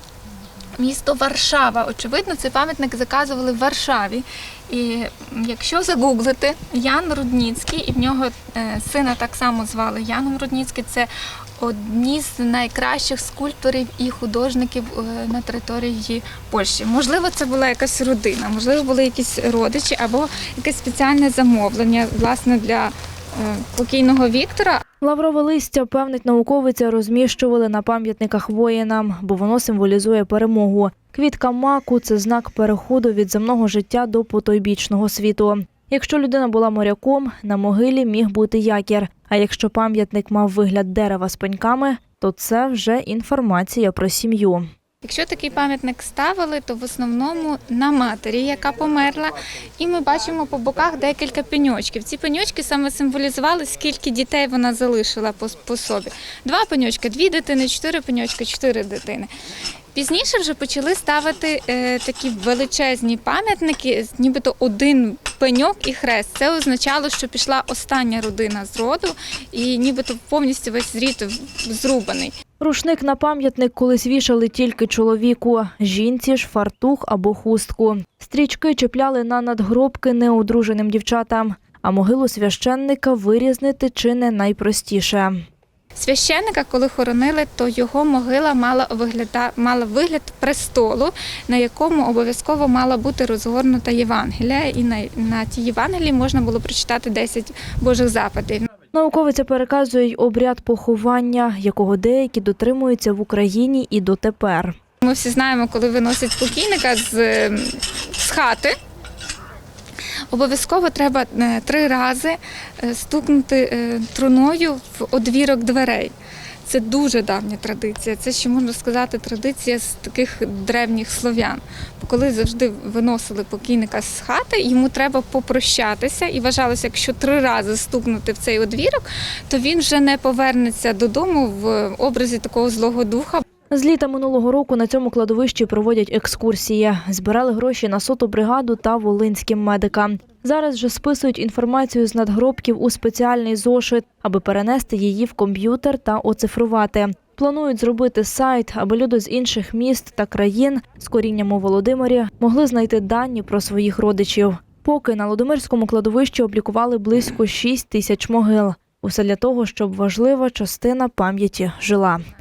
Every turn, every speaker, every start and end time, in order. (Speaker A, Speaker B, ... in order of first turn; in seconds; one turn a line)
Speaker A: 0.7-24.8
Speaker B: 25.0-44.7
Speaker A: 45.0-59.3
Speaker A: 59.9-72.3
Speaker B: 72.6-85.4
Speaker A: 86.0-98.7
Speaker B: 98.9-104.8
Speaker A: 105.0-108.8
Speaker A: 110.3-116.1
Speaker A: 116.6-133.4
Speaker B: 133.7-162.2